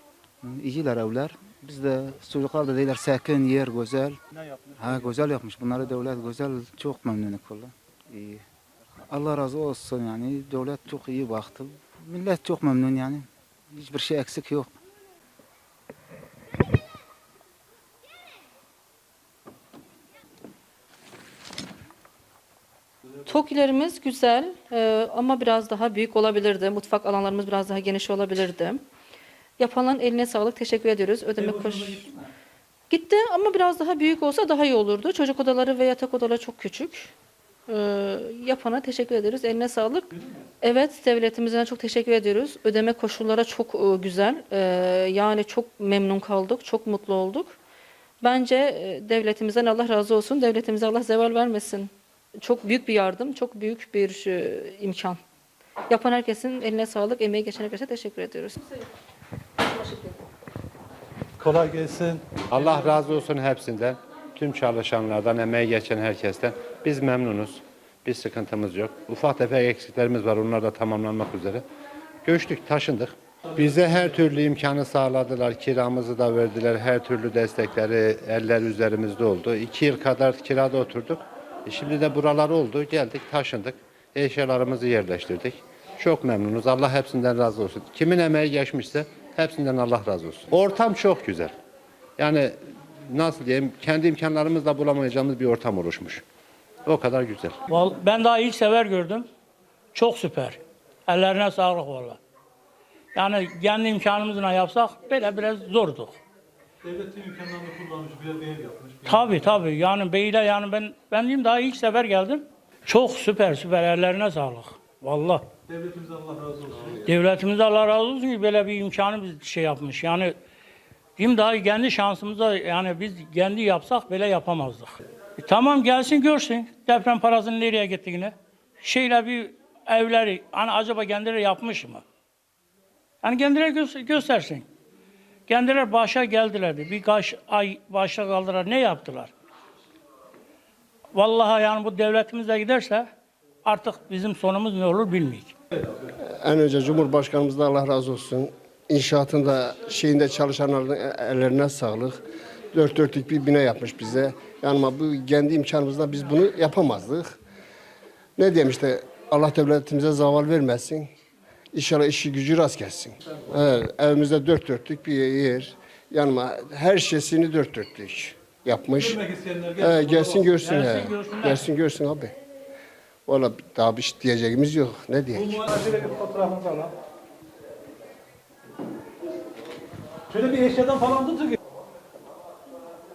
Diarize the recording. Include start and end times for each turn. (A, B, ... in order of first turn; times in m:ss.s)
0:00.4-0:04.2 A
0:04.7-0:08.4 A
0:09.1-0:14.7 A
0:23.3-0:28.8 B
0:29.6-0:32.1 B
0:31.4-0:32.2 C
0:32.9-0:37.1 B
0:37.7-0:40.1 B
0:40.6-0:47.6 B
0:48.2-0:55.2 B
0:55.9-0:58.8 B
0:59.6-1:00.2 B
1:01.4-1:03.2 C
1:02.5-1:11.6 D
1:12.2-1:31.5 D
1:32.2-1:32.6 D
1:33.1-1:36.2 D
1:36.9-1:37.6 D
1:37.7-1:39.3 E
1:39.9-1:42.2 E
1:43.2-1:46.2 E
1:46.8-1:49.7 C
1:49.1-1:55.5 E
1:55.7-1:57.0 C
1:57.0-2:00.3 E
2:01.2-2:12.0 E
2:13.2-2:14.7 E
2:15.5-2:19.3 E
2:21.1-2:23.1 E
2:23.6-2:25.5 E
2:26.2-2:32.2 F
2:32.7-2:37.4 F
2:38.4-2:41.1 F
2:41.7-2:49.2 F
2:49.0-2:50.6 C
2:49.8-2:52.3 F
2:50.5-2:51.7 E
2:53.3-2:55.6 F
2:55.4-2:56.9 C
3:00.3-3:01.6 C